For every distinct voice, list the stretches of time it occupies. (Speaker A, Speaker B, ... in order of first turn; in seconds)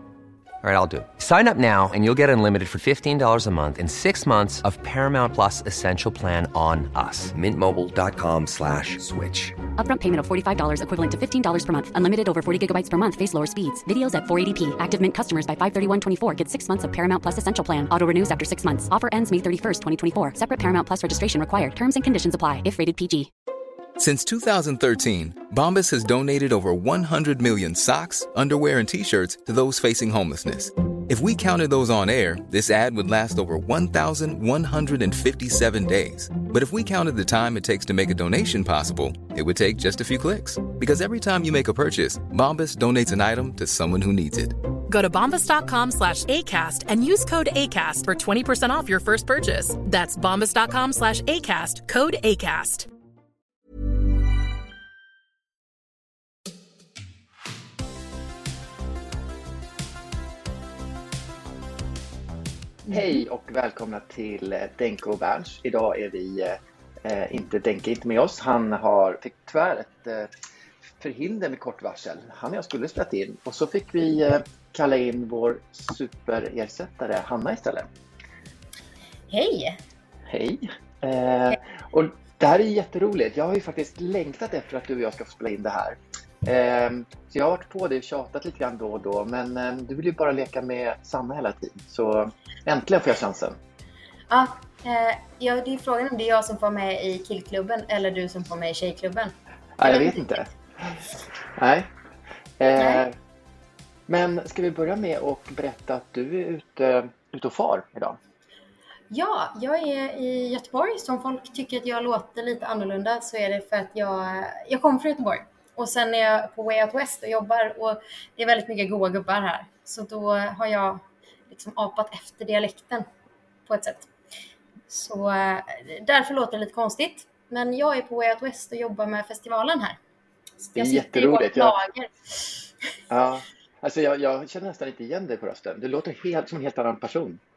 Speaker A: 0.6-9.6
Speaker B: 9.7-23.3
Speaker C: 24.0-44.5
Speaker D: 44.9-52.9
Speaker E: 62.9-70.3, 71.0-77.9, 80.3-93.6, 99.8-101.0, 101.5-101.9, 102.6-103.1, 104.1-108.2, 130.7-131.8, 133.1-137.4
Speaker F: 62.9-63.2, 79.3-79.8, 94.3-100.5, 102.8-103.0, 109.1-123.0, 123.7-124.1, 124.9-130.0, 130.6-132.5